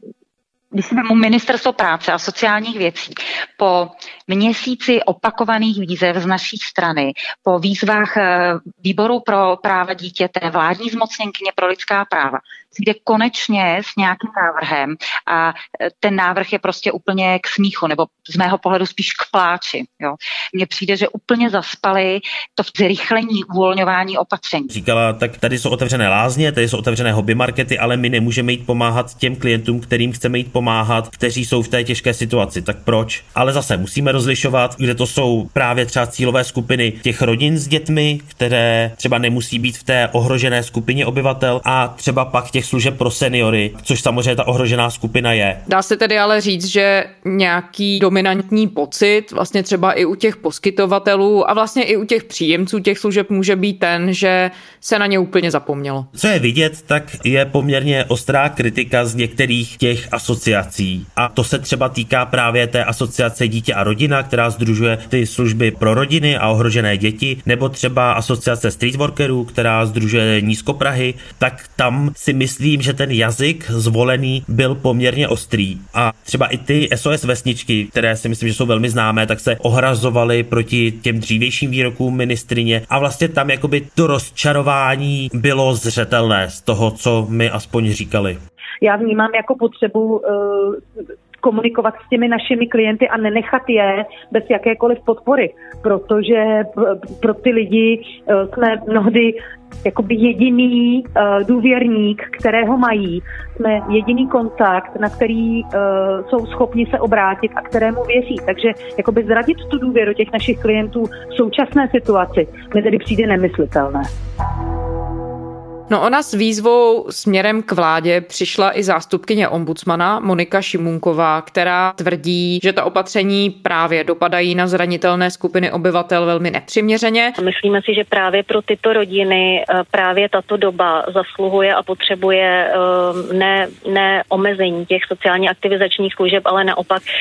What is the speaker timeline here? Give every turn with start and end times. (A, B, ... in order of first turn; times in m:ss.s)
0:00.7-0:24.7 A
0:24.7-0:45.6 B
0:45.7-0:56.1 C
0:56.2-1:28.4 B
1:28.8-1:30.8 D
1:31.4-1:54.1 D
1:55.9-2:07.4 C
2:07.4-2:17.0 E